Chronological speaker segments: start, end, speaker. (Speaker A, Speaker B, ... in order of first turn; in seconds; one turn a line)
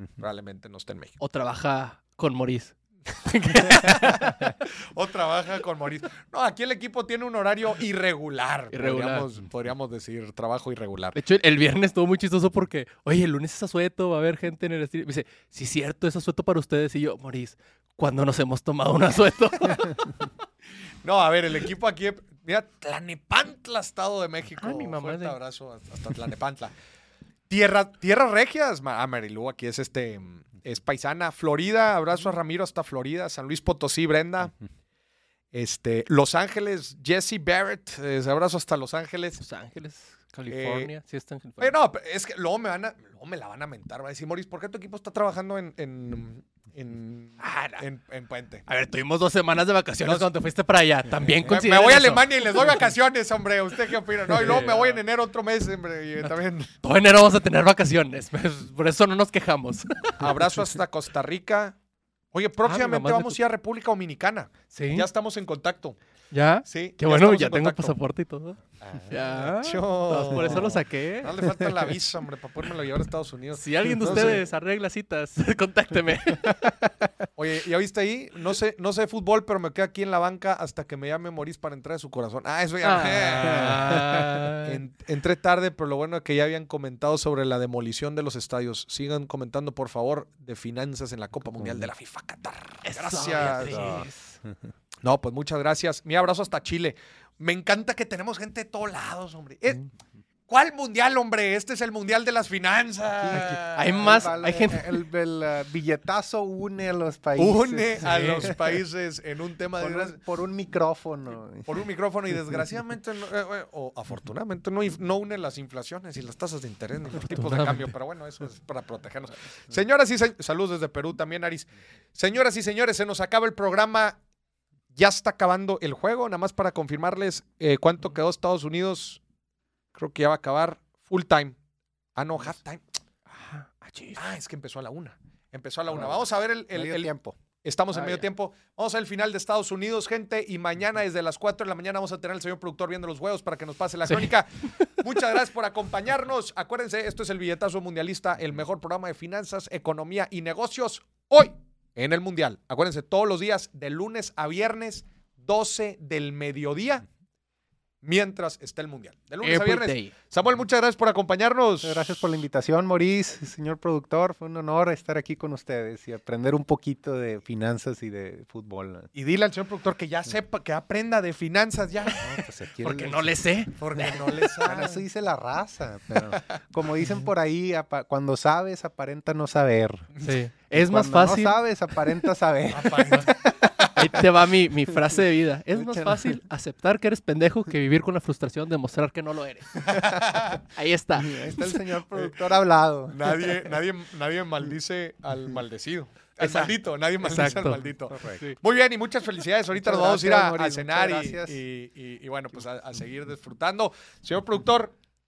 Speaker A: 0.2-1.2
Speaker B: 1.2-4.5
Speaker A: 3.8-11.2
Speaker B: 8.7-9.3
Speaker B: 11.2-20.2
Speaker A: 21.0-26.7
Speaker B: 24.6-25.4
Speaker A: 27.5-34.5
Speaker A: 35.5-39.4
Speaker B: 39.4-41.8
Speaker A: 40.5-40.9
Speaker A: 41.6-48.6
Speaker B: 47.4-47.8
Speaker B: 48.7-52.8
Speaker A: 51.5-56.7
Speaker B: 54.3-55.0
Speaker B: 56.8-60.5
Speaker A: 60.2-61.8
Speaker A: 62.3-66.0
Speaker B: 62.6-63.4
Speaker B: 64.7-65.1
Speaker B: 66.3-68.6
Speaker A: 66.7-68.0
Speaker C: 68.8-69.4
Speaker A: 69.1-74.4
Speaker B: 69.1-71.7
Speaker C: 70.3-70.8
Speaker B: 73.5-76.7
Speaker C: 74.1-74.4
Speaker A: 77.4-84.1
Speaker B: 82.8-84.8
Speaker C: 83.9-84.2
Speaker A: 84.6-94.0
Speaker C: 91.6-91.9
Speaker B: 92.8-94.4
Speaker C: 93.4-94.6
Speaker A: 95.0-99.9
Speaker A: 100.5-104.2
Speaker C: 103.2-108.8
Speaker B: 103.3-105.0
Speaker A: 107.4-110.2
Speaker B: 108.1-108.5
Speaker C: 109.8-111.8
Speaker A: 111.7-124.2
Speaker B: 117.2-117.9
Speaker A: 124.9-129.2
Speaker A: 129.9-131.6
Speaker A: 132.2-132.9
Speaker B: 133.3-134.2
Speaker A: 134.2-157.1
Speaker C: 136.7-137.4
Speaker B: 137.9-138.2
Speaker B: 144.1-145.0
Speaker A: 158.0-162.2
Speaker B: 159.4-160.1
Speaker C: 161.8-169.1
Speaker A: 169.1-172.3
Speaker C: 172.2-173.3
Speaker B: 172.8-173.8
Speaker A: 173.8-175.0
Speaker C: 174.6-180.1
Speaker B: 180.2-181.6
Speaker C: 180.7-184.1
Speaker A: 182.7-184.0
Speaker B: 183.9-189.9
Speaker C: 185.8-186.2
Speaker A: 189.9-190.6
Speaker B: 190.7-191.4
Speaker C: 191.2-193.6
Speaker A: 193.1-205.0
Speaker B: 196.4-197.8
Speaker C: 198.1-198.4
Speaker C: 199.7-201.6